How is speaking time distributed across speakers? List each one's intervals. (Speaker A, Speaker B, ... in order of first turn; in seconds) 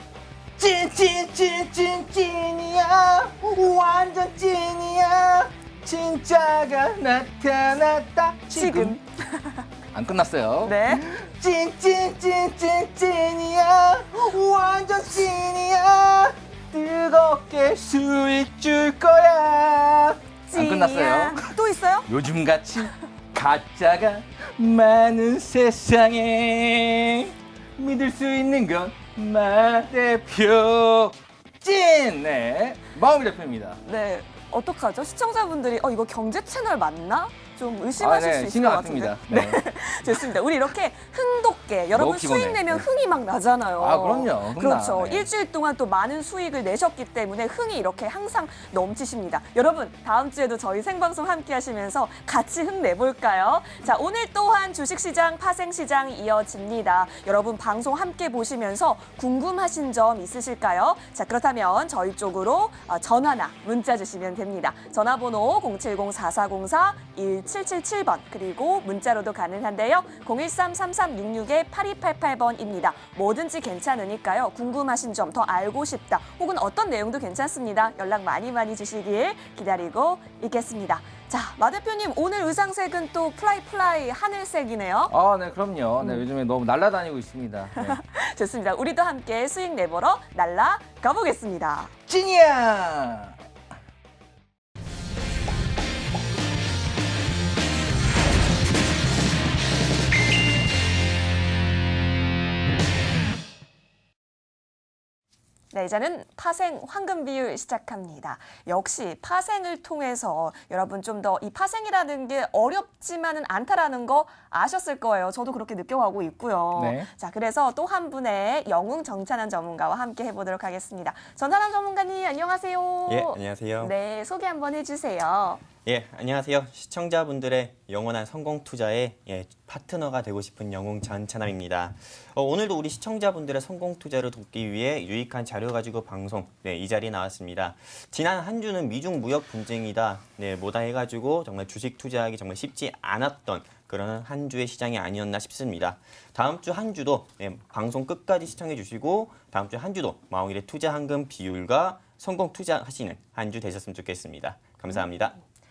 Speaker A: 0.6-9.0, 9.9-33.8, 38.0-40.3, 41.9-42.9, 43.8-45.3, 85.1-88.0, 92.1-93.4, 116.8-117.1
Speaker B: 8.5-9.7, 10.6-11.0, 20.5-22.1, 33.8-85.1, 87.8-91.9, 105.7-125.6
Speaker C: 123.1-123.9, 125.8-155.4